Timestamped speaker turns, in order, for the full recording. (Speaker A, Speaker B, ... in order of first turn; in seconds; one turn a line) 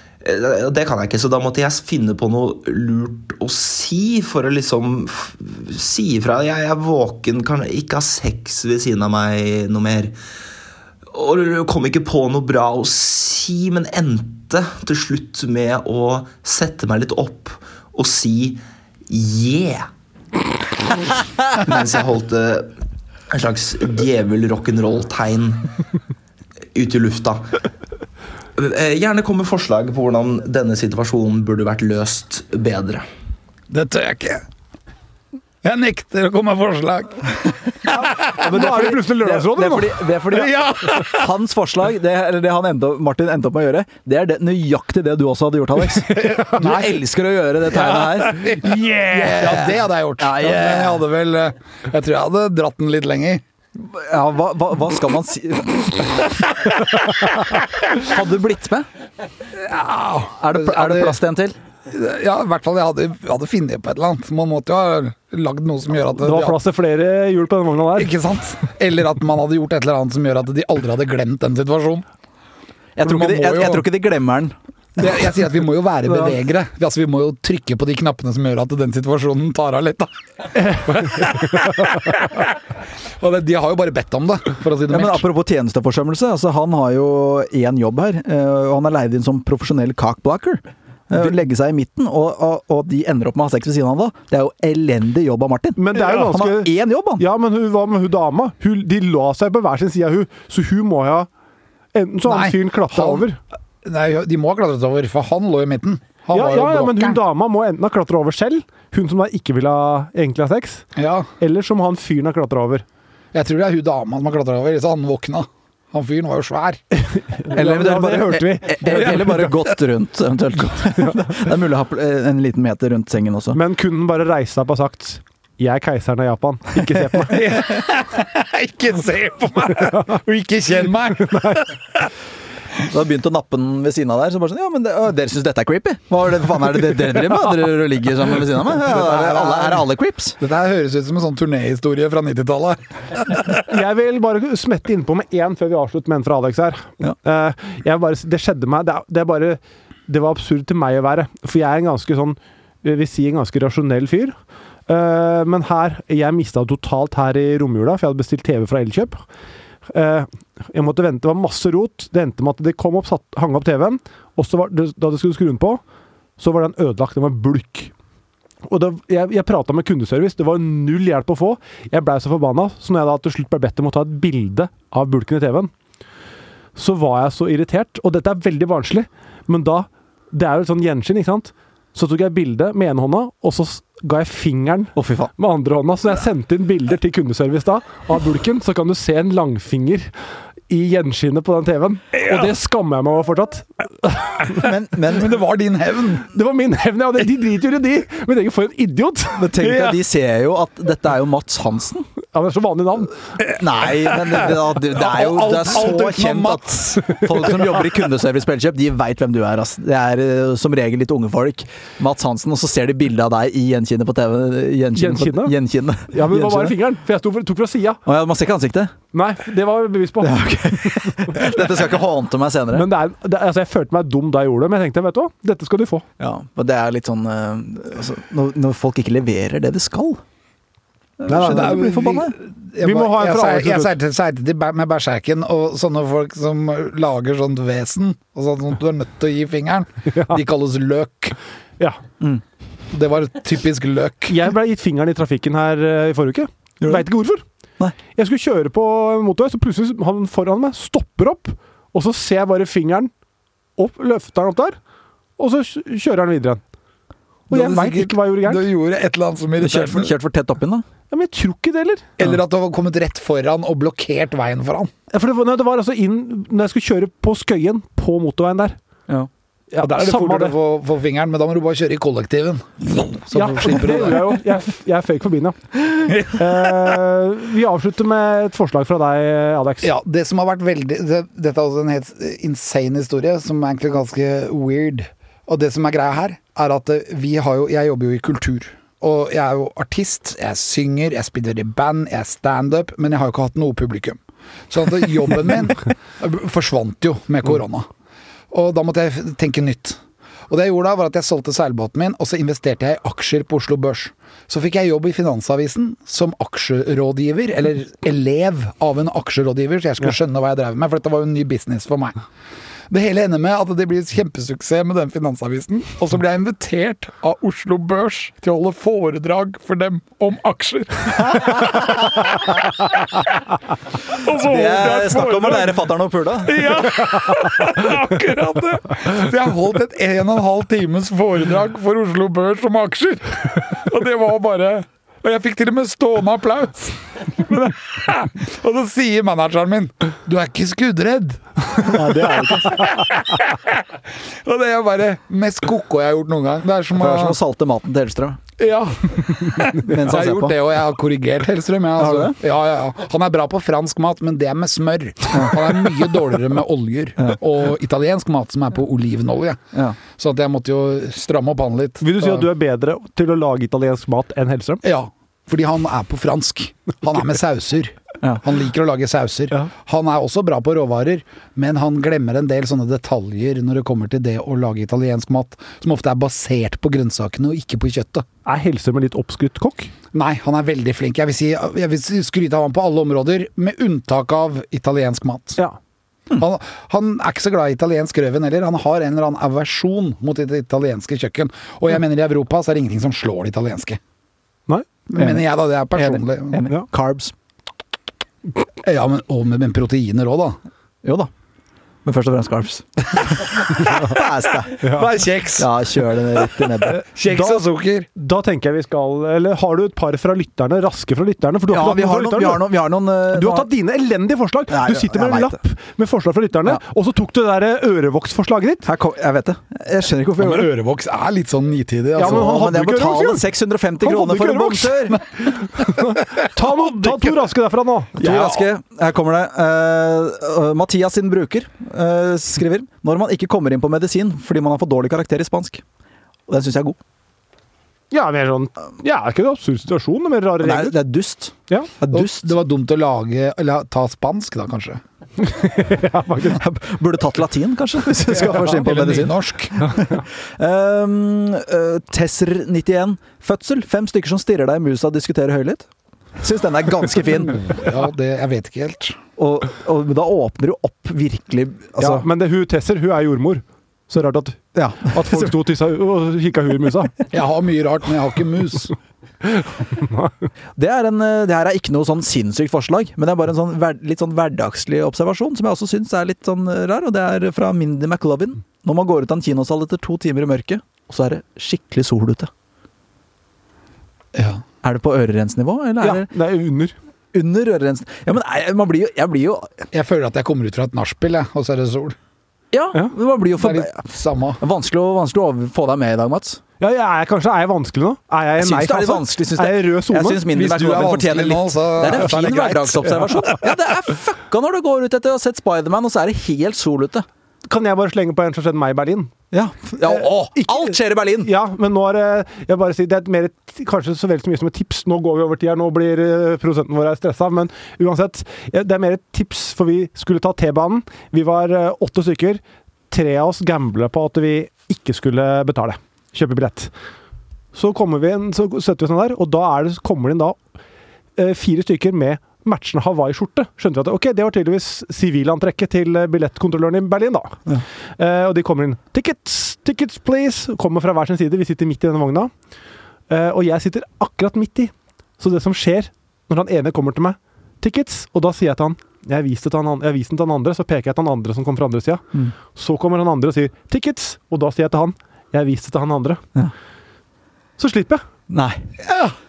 Speaker A: 0.2-10.1
Speaker A: 11.1-19.9
Speaker A: 21.0-22.7
Speaker A: 23.3-25.7
Speaker A: 26.7-27.4
Speaker A: 28.6-33.1
Speaker B: 33.7-34.4
Speaker B: 35.6-38.4
Speaker C: 38.3-40.0
Speaker D: 38.4-51.0
Speaker B: 40.3-41.3
Speaker B: 46.1-47.0
Speaker C: 46.2-46.5
Speaker B: 47.7-53.4
Speaker D: 53.8-56.4
Speaker D: 57.9-58.9
Speaker B: 59.5-61.2
Speaker D: 60.4-61.5
Speaker B: 61.9-66.6
Speaker C: 66.2-68.2
Speaker B: 68.0-72.0
Speaker D: 73.0-75.0
Speaker B: 73.0-73.9
Speaker B: 75.0-80.1
Speaker D: 76.1-76.4
Speaker B: 80.7-82.4
Speaker B: 83.2-85.3
Speaker D: 84.9-97.2
Speaker C: 95.8-101.3
Speaker C: 101.9-103.4
Speaker B: 102.3-103.3
Speaker B: 103.8-107.2
Speaker C: 106.3-110.8
Speaker B: 111.0-111.3
Speaker C: 111.4-112.8
Speaker B: 113.3-116.8
Speaker C: 117.0-119.5
Speaker D: 117.5-123.6
Speaker C: 121.0-121.3
Speaker C: 123.5-127.5
Speaker B: 127.3-132.1
Speaker C: 131.3-131.6
Speaker D: 132.8-140.4
Speaker B: 138.8-139.9
Speaker B: 140.4-143.7
Speaker C: 143.6-154.3
Speaker C: 154.9-159.2
Speaker C: 159.9-165.8
Speaker C: 166.4-167.9
Speaker C: 168.7-175.7
Speaker C: 176.8-190.1
Speaker D: 185.0-185.3
Speaker C: 190.7-194.6
Speaker D: 194.5-195.4
Speaker B: 195.1-196.3
Speaker C: 196.3-200.0
Speaker D: 199.4-202.1
Speaker C: 202.3-203.2
Speaker D: 203.5-216.8
Speaker B: 204.9-207.2
Speaker C: 207.0-207.5
Speaker C: 214.9-215.6
Speaker C: 216.1-218.0
Speaker D: 218.1-218.9
Speaker C: 219.1-221.6
Speaker D: 220.2-222.9
Speaker C: 222.7-226.1
Speaker D: 226.2-230.2
Speaker D: 231.2-232.3
Speaker C: 231.3-231.8
Speaker B: 231.3-241.4
Speaker C: 232.8-233.9
Speaker C: 240.1-240.4
Speaker B: 242.9-244.4
Speaker C: 244.3-247.4
Speaker C: 248.2-253.1
Speaker C: 253.8-254.8
Speaker C: 255.4-256.6
Speaker C: 257.5-258.7
Speaker B: 257.5-260.1
Speaker D: 259.6-260.9
Speaker C: 261.1-262.1
Speaker B: 262.2-264.9
Speaker C: 265.1-268.8
Speaker C: 269.7-270.6
Speaker B: 269.8-274.4
Speaker C: 273.3-279.9
Speaker B: 276.1-276.4
Speaker B: 279.8-297.9
Speaker B: 298.5-312.2
Speaker B: 312.9-322.5
Speaker B: 324.1-325.8
Speaker D: 324.3-326.7
Speaker B: 326.4-342.0
Speaker D: 341.9-342.9
Speaker C: 342.0-343.0
Speaker B: 342.7-343.8
Speaker B: 344.4-347.4
Speaker D: 347.0-348.4
Speaker B: 348.6-362.5
Speaker D: 349.6-350.6
Speaker D: 352.0-352.4
Speaker D: 359.7-360.0
Speaker C: 362.0-364.8
Speaker B: 364.8-378.2
Speaker C: 378.4-379.9
Speaker B: 380.1-385.6
Speaker B: 386.3-394.0
Speaker B: 395.1-396.6
Speaker D: 395.2-397.3
Speaker B: 398.8-400.6
Speaker D: 401.0-401.3
Speaker D: 402.1-407.0
Speaker B: 403.6-404.3
Speaker C: 404.8-405.1
Speaker B: 404.8-405.7
Speaker B: 406.6-408.1
Speaker C: 407.2-407.6
Speaker C: 408.1-412.7
Speaker D: 411.7-413.7
Speaker C: 413.3-418.9
Speaker D: 414.7-415.6
Speaker D: 418.9-420.7
Speaker B: 420.4-422.6
Speaker C: 422.1-423.5
Speaker D: 422.2-425.2
Speaker C: 424.0-428.2
Speaker B: 426.8-427.1
Speaker D: 428.2-435.8
Speaker B: 428.2-428.7
Speaker D: 436.5-437.0
Speaker C: 438.1-441.0
Speaker D: 440.6-442.5
Speaker B: 442.1-445.0
Speaker C: 445.4-446.6
Speaker D: 446.5-455.9
Speaker B: 448.3-449.9
Speaker D: 456.4-457.8
Speaker B: 457.7-459.2
Speaker D: 459.4-462.2
Speaker C: 462.0-467.2
Speaker D: 464.8-465.5
Speaker B: 467.3-468.9
Speaker C: 469.4-470.3
Speaker D: 470.8-482.5
Speaker B: 484.4-484.6
Speaker D: 484.8-486.3
Speaker C: 486.0-486.9
Speaker D: 487.3-489.7
Speaker B: 489.9-492.2
Speaker D: 492.7-494.1
Speaker B: 493.6-494.6
Speaker D: 494.6-496.6
Speaker C: 496.8-500.5
Speaker D: 498.6-507.3
Speaker B: 500.5-503.2
Speaker C: 507.7-509.3
Speaker D: 509.5-511.5
Speaker B: 510.0-510.5
Speaker C: 511.4-526.9
Speaker C: 527.7-530.6
Speaker C: 531.4-537.6
Speaker C: 538.2-542.5
Speaker C: 543.3-556.4
Speaker C: 557.8-558.2
Speaker D: 558.5-559.3